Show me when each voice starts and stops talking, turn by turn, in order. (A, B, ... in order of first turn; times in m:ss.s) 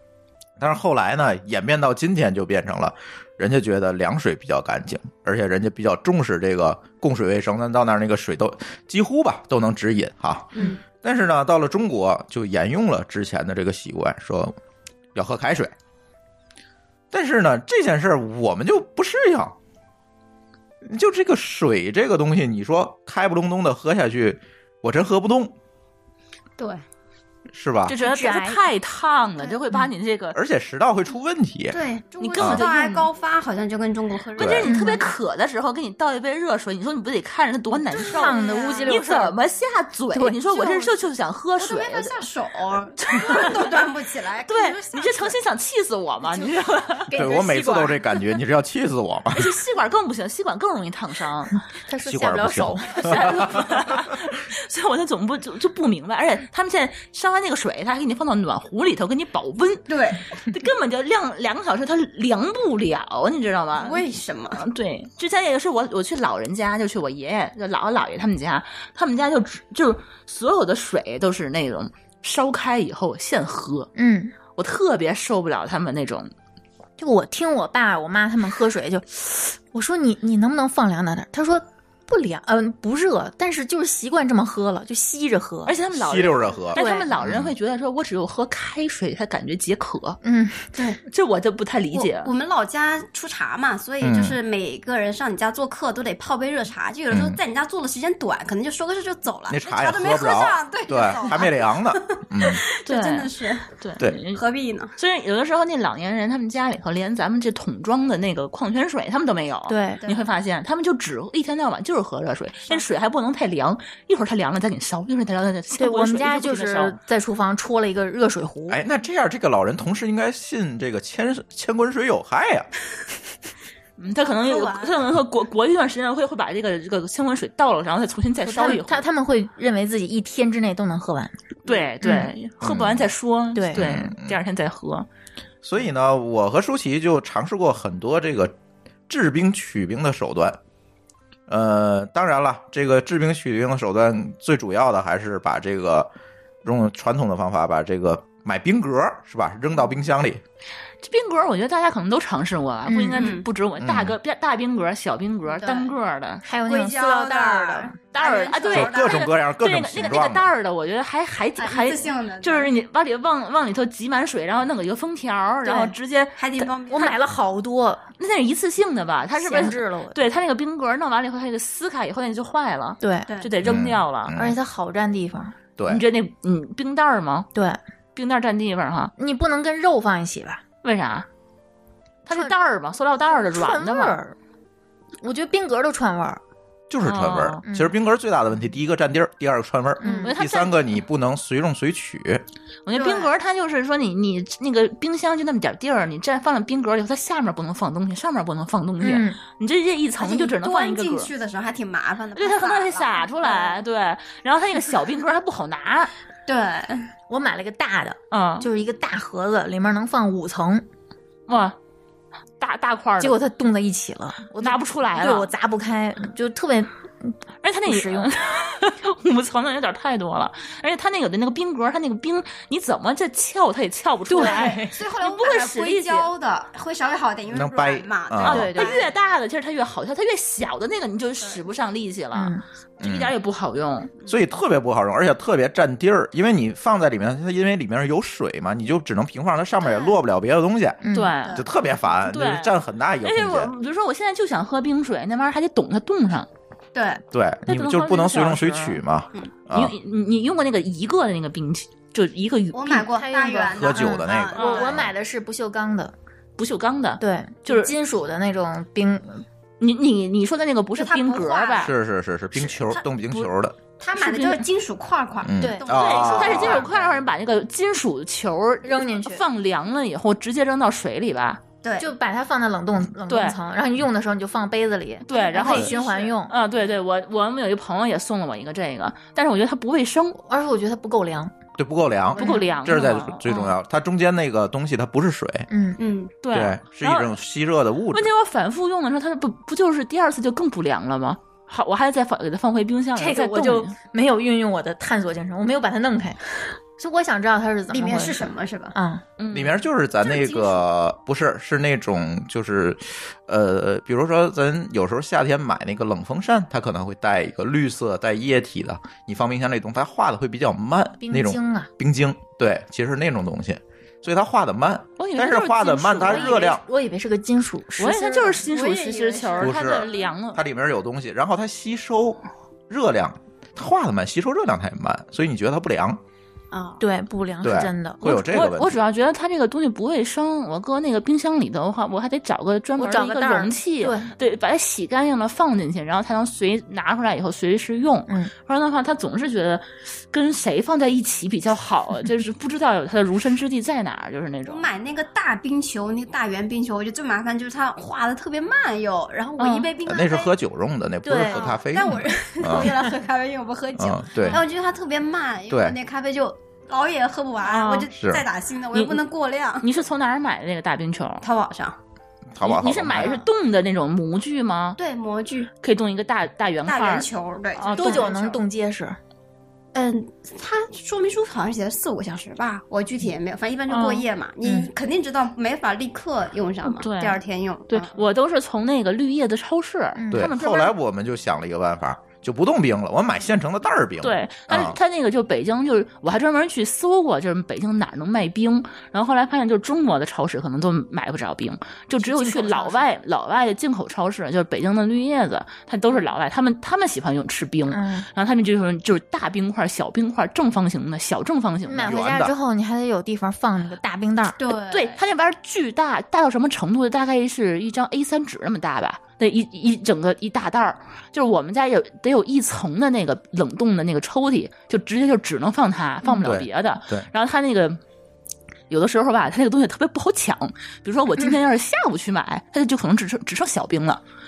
0:00.6-0:14.6 A
0:15.2-0:15.7 A
0:17.1-0:19.5 A
0:20.9-0:25.5 A
0:26.6-0:26.8 B
0:27.5-0:28.0 A
0:27.9-0:30.4 C
0:28.0-0:28.6 D
0:30.4-0:31.8 A
0:31.7-0:35.0 B
0:32.2-0:33.1 C
0:32.4-0:32.6 A
0:34.4-0:34.7 A
0:34.4-0:42.2 C
0:34.7-0:35.0 D
0:37.9-0:39.0 B
0:38.0-0:39.4 D
0:40.1-0:40.4 D
0:40.5-0:40.9 B
0:41.6-0:45.3 B
0:43.0-0:43.9 C
0:44.5-0:47.1 C
0:47.1-0:49.6 A
0:47.1-0:48.2 D
0:49.3-0:51.6 C
0:51.9-0:53.6 D
0:52.0-0:54.2 A
0:52.9-1:04.0 C
0:59.9-1:00.2 B
1:03.8-1:04.7 B
1:04.6-1:13.9 C
1:14.0-1:14.3 D
1:14.6-1:16.3 C
1:17.0-1:25.7 D
1:25.7-1:30.2 C
1:25.9-1:27.5 A
1:26.8-1:27.1 D
1:30.2-1:30.6 D
1:30.8-1:31.0 B
1:31.0-1:32.3 C
1:31.9-1:43.7 B
1:34.0-1:34.4 A
1:37.1-1:37.4 A
1:39.5-1:42.6 A
1:42.9-1:44.4 C
1:44.3-1:45.0 B
1:45.0-1:57.0 C
1:49.7-1:50.0 D
1:55.8-1:58.8 D
1:58.7-2:02.7 A
2:04.0-2:09.0 C
2:04.2-2:05.0 B
2:08.4-2:11.4 D
2:11.6-2:15.1 C
2:12.0-2:12.3 D
2:12.6-2:13.1 A
2:13.6-2:13.9 D
2:13.7-2:14.4 A
2:15.6-2:18.5 A
2:19.1-2:20.6 A
2:21.5-2:26.1 A
2:26.6-2:30.4 A
2:31.0-2:36.4 C
2:32.9-2:33.4 D
2:33.2-2:33.4 B
2:33.8-2:34.2 A
2:35.5-2:35.9 B
2:36.4-2:38.0 D
2:36.7-2:39.3 B
2:38.1-2:46.7 C
2:38.7-2:40.4 A
2:41.6-2:42.7 B
2:45.6-2:46.0 D
2:46.4-2:47.2 B
2:46.9-2:48.0 D
2:48.2-2:54.3 C
2:49.4-2:50.2 D
2:53.0-2:53.3 D
2:53.3-2:53.5 B
2:53.6-2:54.6 A
2:54.4-2:55.6 D
2:55.8-2:56.0 A
2:55.9-2:57.5 C
2:57.5-2:57.8 D
2:58.2-2:59.1 C
2:59.2-3:00.6 D
3:00.8-3:01.3 C
3:02.3-3:04.2 C
3:03.4-3:04.4 D
3:05.2-3:06.4 D
3:06.9-3:12.4 A
3:07.0-3:07.6 C
3:07.6-3:08.0 D
3:10.0-3:10.3 D
3:10.2-3:10.8 C
3:12.9-3:21.3 C
3:13.0-3:13.3 B
3:19.0-3:19.4 D
3:20.2-3:23.8 B
3:22.4-3:26.1 C
3:26.5-3:27.1 B
3:27.3-3:30.8 D
3:28.3-3:28.7 C
3:31.5-3:31.8 C
3:32.6-3:33.4 C
3:33.2-3:37.4 D
3:34.6-3:35.5 C
3:37.6-3:46.3 C
3:37.9-3:38.3 D
3:44.3-3:45.0 D
3:44.4-3:49.1 B
3:47.5-3:48.7 A
3:48.4-3:54.1 C
3:48.5-3:49.0 D
3:52.3-3:52.6 D
3:53.0-3:53.3 A
3:54.3-4:01.0 A
3:59.8-4:00.2 B
4:01.0-4:01.4 D
4:01.1-4:01.6 C
4:01.4-4:01.9 B
4:01.6-4:03.7 A
4:02.2-4:06.5 C
4:06.9-4:07.2 B
4:07.3-4:10.0 A
4:07.7-4:09.0 C
4:09.7-4:13.1 C
4:12.7-4:15.0 B
4:13.1-4:16.1 D
4:13.7-4:15.1 A
4:14.6-4:14.9 C
4:16.6-4:17.9 C
4:17.2-4:19.4 D
4:19.8-4:21.9 C
4:21.0-4:21.9 B
4:21.8-4:23.8 A
4:22.6-4:23.0 B
4:24.0-4:27.2 B
4:24.2-4:24.6 C
4:25.4-4:26.9 A
4:25.6-4:25.9 D
4:25.9-4:31.6 C
4:28.8-4:29.4 D
4:31.8-4:32.1 B
4:32.0-4:36.5 D
4:33.3-4:33.6 C
4:35.3-4:36.0 C
4:35.4-4:36.4 B
4:36.5-4:40.4 C
4:40.5-4:41.5 D
4:41.8-4:45.7 A
4:42.4-4:42.8 B
4:42.4-4:43.7 C
4:45.7-4:46.0 D
4:46.0-4:46.3 B
4:46.4-4:47.3 C
4:46.5-4:48.3 A
4:48.1-4:54.0 C
4:53.2-4:56.4 D
4:57.0-4:59.2 D
4:57.9-4:59.0 B
4:59.4-4:59.8 C
4:59.5-5:16.8 A
5:00.2-5:00.8 B
5:11.2-5:11.9 D
5:15.2-5:16.7 C
5:16.2-5:18.6 D
5:18.0-5:20.6 C
5:18.6-5:20.3 B
5:19.6-5:26.2 A
5:26.7-5:27.0 B
5:27.0-5:28.4 D
5:27.6-5:29.0 A
5:28.2-5:44.9 C
5:33.0-5:34.3 D
5:44.7-5:50.5 B
5:49.6-5:49.9 C
5:50.0-5:53.0 A
5:51.2-5:51.8 D
5:51.4-5:59.9 B
5:54.0-5:54.6 A
5:55.7-5:56.0 A
5:57.6-5:58.1 C
5:58.2-5:58.5 A
5:58.9-5:59.2 C
5:59.8-6:01.4 C
6:01.4-6:02.0 B
6:02.6-6:03.4 A
6:02.6-6:05.0 C
6:03.2-6:03.4 B
6:05.0-6:05.7 B
6:05.8-6:08.4 C
6:06.8-6:08.6 B
6:08.0-6:09.2 D
6:09.9-6:18.1 B
6:13.9-6:14.2 C
6:16.8-6:20.9 C
6:20.2-6:20.5 D
6:20.3-6:25.0 A
6:24.2-6:42.2 C
6:32.2-6:33.1 D
6:37.9-6:38.3 D
6:41.9-6:44.6 D
6:42.0-6:42.5 A
6:44.6-6:45.2 B
6:44.9-6:58.0 C
6:56.4-6:57.3 A
6:58.9-7:04.2 C